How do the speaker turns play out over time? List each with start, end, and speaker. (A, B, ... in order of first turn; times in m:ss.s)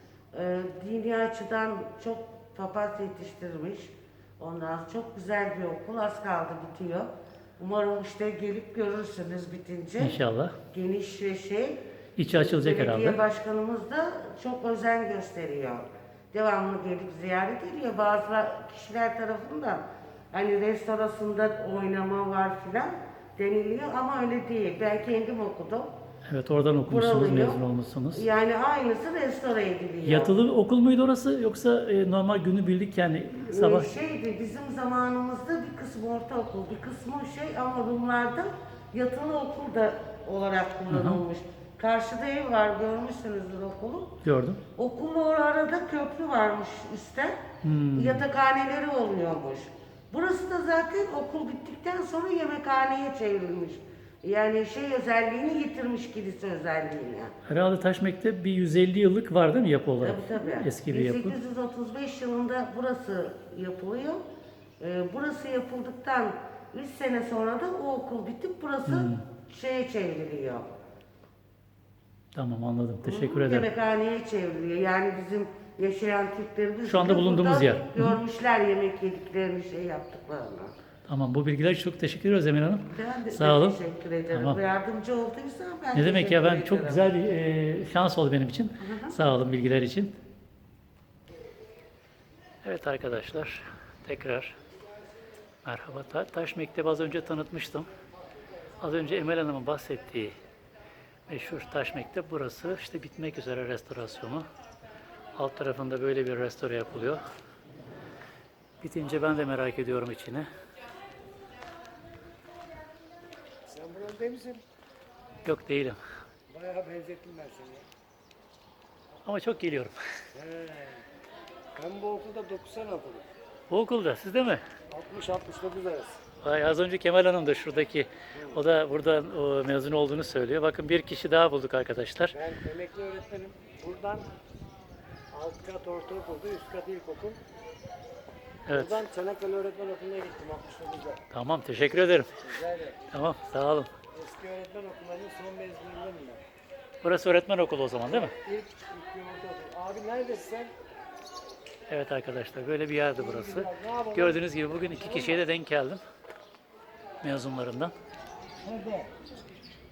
0:00.3-0:10.2 A
0:10.0-0:10.6 B
0:10.7-0:25.9 A
0:12.2-0:13.2 B
0:26.2-0:28.2 B
0:26.9-0:30.3 A
0:30.0-0:33.9 B
0:33.5-0:44.2 A
0:40.9-0:41.2 B
0:44.2-0:44.6 B
0:44.8-0:47.4 A
0:47.6-0:48.2 B
0:47.9-0:57.3 A
0:57.4-1:01.4 B
1:00.0-1:04.2 A
1:04.8-1:10.7 A
1:08.9-1:09.2 B
1:12.3-1:13.7 B
1:13.0-1:20.7 A
1:16.8-1:18.2 B
1:21.0-1:23.8 B
1:22.9-1:27.1 A
1:24.3-1:24.6 B
1:25.9-1:30.1 B
1:28.8-1:29.2 A
1:32.6-1:34.6 B
1:35.6-1:37.9 B
1:38.8-1:40.4 B
1:41.3-1:44.5 B
1:45.3-1:47.2 B
1:48.8-1:50.5 B
1:53.6-1:54.6 C
1:55.4-1:56.0 B
1:56.5-1:57.8 C
1:59.2-2:00.0 B
2:00.3-2:01.0 C
2:01.7-2:03.3 C
2:03.7-2:04.6 B
2:04.9-2:06.2 C
2:06.4-2:12.4 B
2:12.3-2:14.3 C
2:15.3-2:17.4 C
2:18.6-2:19.0 B
2:18.7-2:21.2 C
2:21.3-2:22.5 B
2:22.4-2:23.0 C
2:23.1-2:23.9 B
2:24.1-2:26.4 C
2:27.0-2:28.4 B
2:28.1-2:30.8 C
2:31.9-2:36.0 B
2:33.2-2:35.4 C
2:37.2-2:37.9 B
2:38.6-2:39.1 C